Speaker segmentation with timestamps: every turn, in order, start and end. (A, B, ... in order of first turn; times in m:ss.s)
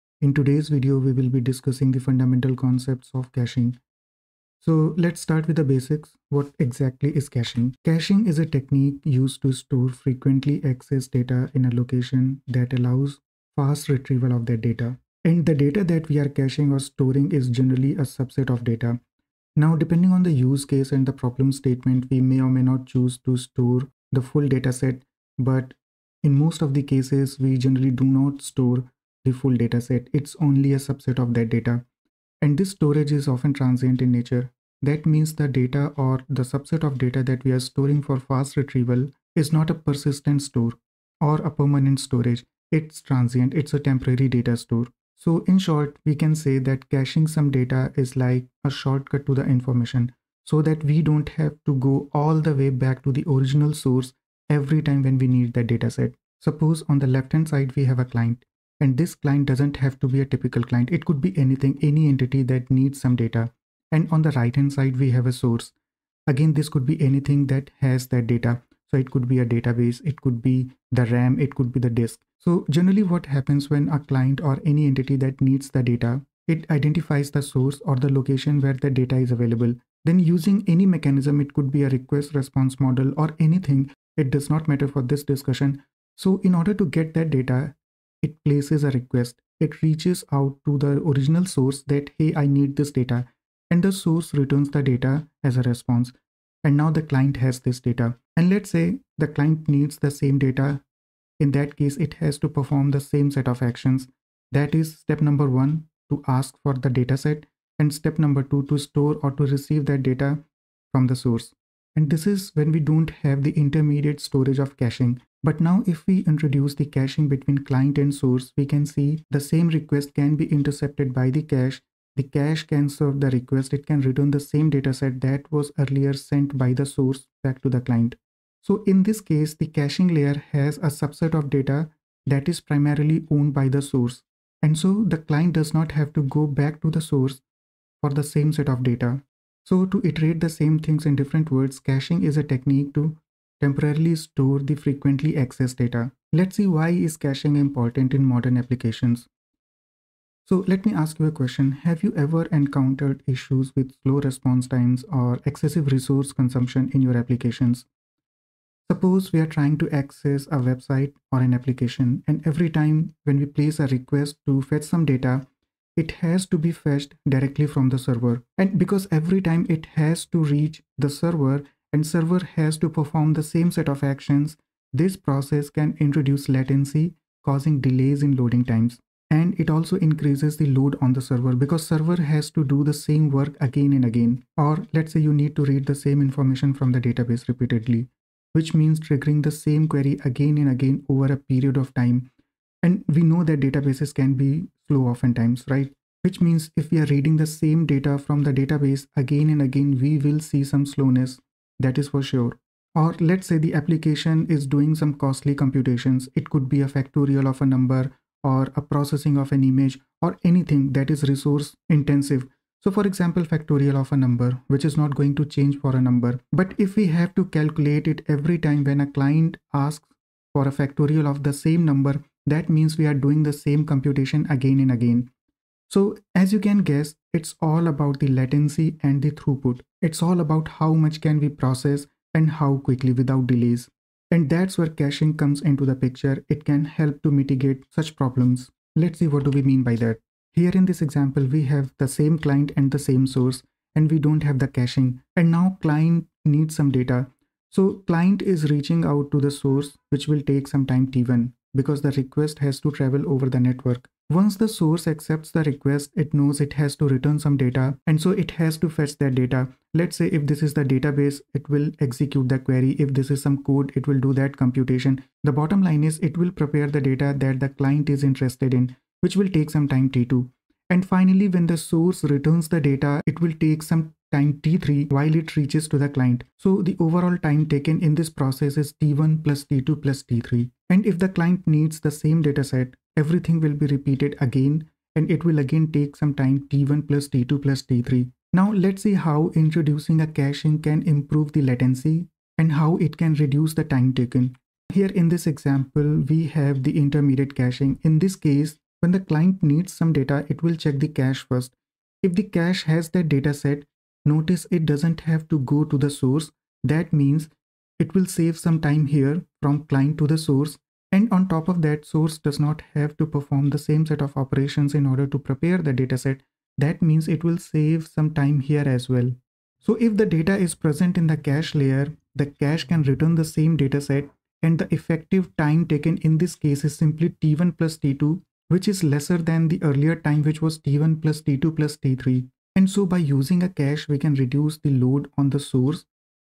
0:00.2-0:03.8 A
0:04.6-0:19.0 A
0:19.6-0:31.8 A
0:32.4-1:05.7 A
1:06.3-1:40.8 A
1:41.4-2:17.4 A
2:18.0-2:29.3 A
2:30.4-2:37.9 A
2:38.9-3:12.3 A
3:12.8-3:45.3 A
3:45.9-5:36.1 A